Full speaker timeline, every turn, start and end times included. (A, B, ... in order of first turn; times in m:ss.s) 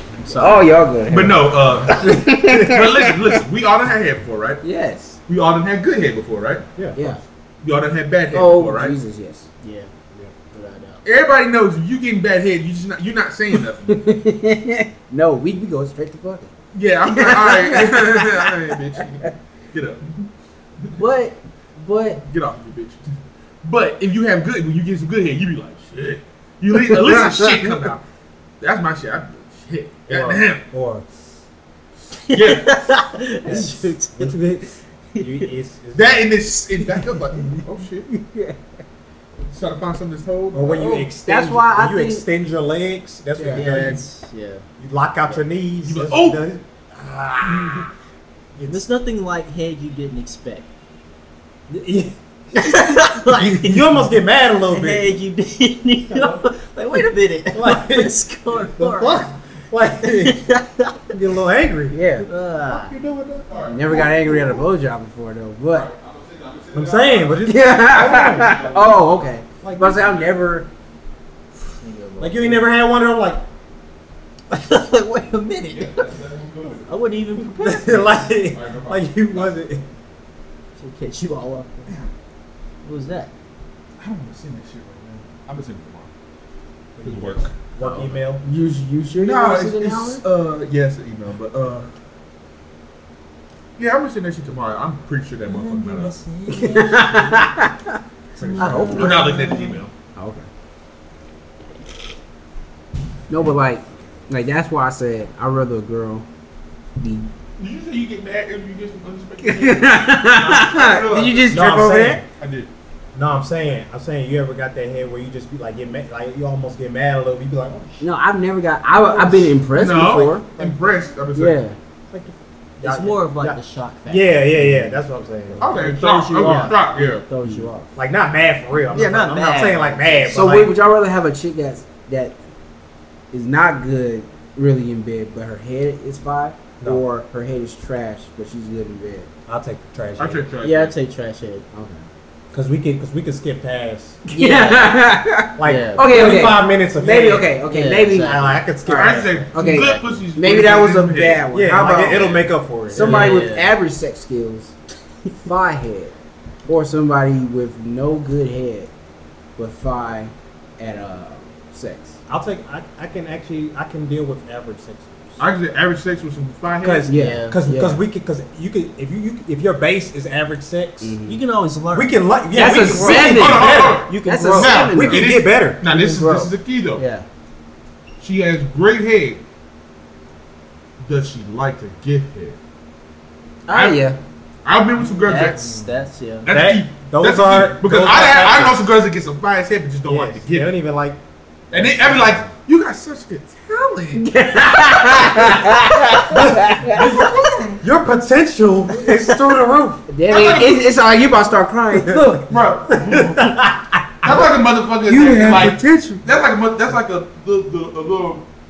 0:00.2-0:00.6 A
0:00.3-0:03.3 B
0:01.1-0:04.6 C
0:04.6-0:05.2 B
0:05.3-0:06.6 C
0:06.8-0:07.2 D
0:07.0-0:07.2 B
0:07.6-0:09.0 C
0:08.3-0:09.5 B
0:09.6-0:09.9 A
0:10.5-0:11.0 A
0:11.0-0:14.1 C
0:13.9-0:16.5 B
0:16.7-0:20.2 C
0:17.1-0:18.5 B
0:21.0-0:22.2 B
0:22.2-0:23.1 C
0:23.6-0:28.0 C
0:26.9-0:27.4 B
0:28.6-0:30.6 C
0:30.1-0:31.4 D
0:32.1-0:34.4 A
0:32.3-0:32.9 C
0:33.4-0:36.3 D
0:35.1-0:35.5 A
0:35.9-0:38.1 C
0:38.2-0:38.6 B
0:39.5-0:40.9 C
0:40.5-0:44.0 D
0:40.7-0:42.2 B
0:43.4-0:43.7 B
0:43.5-0:44.6 A
0:44.8-0:47.9 D
0:45.8-0:46.4 C
0:47.4-0:47.9 C
0:48.6-0:48.8 D
0:48.6-0:50.7 A
0:51.7-0:55.1 D
0:52.5-0:53.9 A
0:54.6-0:59.3 A
0:57.5-1:00.5 D
1:00.0-1:01.1 A
1:01.1-1:02.0 D
1:01.9-1:02.2 B
1:02.2-1:02.9 A
1:02.7-1:04.4 D
1:03.5-1:04.1 C
1:03.7-1:05.9 B
1:05.7-1:07.5 C
1:06.7-1:08.7 D
1:07.4-1:10.7 B
1:08.0-1:10.2 C
1:09.6-1:10.2 D
1:11.6-1:12.7 A
1:12.2-1:13.4 D
1:14.5-1:16.1 A
1:15.7-1:17.0 C
1:16.8-1:18.1 A
1:17.5-1:19.8 D
1:18.5-1:19.5 C
1:20.8-1:22.0 A
1:22.8-1:23.3 A
1:24.0-1:26.1 C
1:27.0-1:28.4 D
1:27.0-1:27.5 C
1:27.8-1:30.2 B
1:29.2-1:31.9 C
1:33.8-1:36.1 C
1:35.4-1:37.5 A
1:36.5-1:38.0 B
1:38.4-1:39.8 A
1:38.4-1:39.9 C
1:38.4-1:39.0 D
1:38.6-1:39.3 B
1:40.2-1:40.5 B
1:43.3-1:46.2 B
1:47.0-1:47.3 B
1:47.6-1:51.6 C
1:49.4-1:52.2 B
1:51.5-1:52.2 D
1:52.4-1:52.7 C
1:53.1-1:58.0 D
1:58.0-2:00.5 B
1:58.9-1:59.6 D
1:59.7-2:01.6 C
2:00.6-2:00.8 D
2:01.3-2:01.8 B
2:02.1-2:05.8 D
2:02.8-2:07.9 A
2:05.6-2:07.2 C
2:06.4-2:06.8 D
2:07.4-2:07.7 B
2:08.0-2:10.7 D
2:08.9-2:10.2 A
2:10.3-2:12.4 B
2:13.3-2:19.3 B
2:19.5-2:20.5 D
2:20.2-2:20.9 C
2:20.6-2:21.6 A
2:21.7-2:22.0 B
2:22.5-2:24.9 D
2:24.3-2:34.7 B
2:25.6-2:27.5 D
2:25.6-2:26.0 A
2:27.7-2:28.6 A
2:28.2-2:29.5 D
2:28.9-2:31.4 C
2:29.5-2:30.3 A
2:31.5-2:33.4 D
2:32.9-2:33.7 A
2:35.3-2:36.1 B
2:36.6-2:38.9 B
2:39.6-2:42.2 B
2:42.3-2:45.4 D
2:45.4-2:47.1 C
2:46.8-2:51.2 D
2:47.0-2:48.0 B
2:47.1-2:47.6 A
2:51.0-2:51.4 B
2:51.3-2:54.8 A
2:51.9-2:54.2 D
2:52.5-2:55.3 B
2:53.1-2:57.0 C
2:54.8-2:55.8 D
2:55.9-2:57.2 A
2:58.2-2:59.4 C
3:01.0-3:02.6 C
3:03.7-3:04.2 B
3:03.7-3:04.0 C
3:04.6-3:05.8 C
3:05.0-3:06.5 A
3:06.4-3:10.7 C
3:06.5-3:08.8 D
3:10.0-3:11.2 D
3:11.7-3:12.5 D
3:11.7-3:14.3 C
3:14.2-3:17.7 B
3:16.2-3:20.0 D
3:20.1-3:22.5 B
3:20.3-3:20.8 C
3:22.0-3:22.3 D
3:22.5-3:23.6 C
3:22.9-3:24.4 D
3:24.2-3:28.5 C
3:25.1-3:26.2 B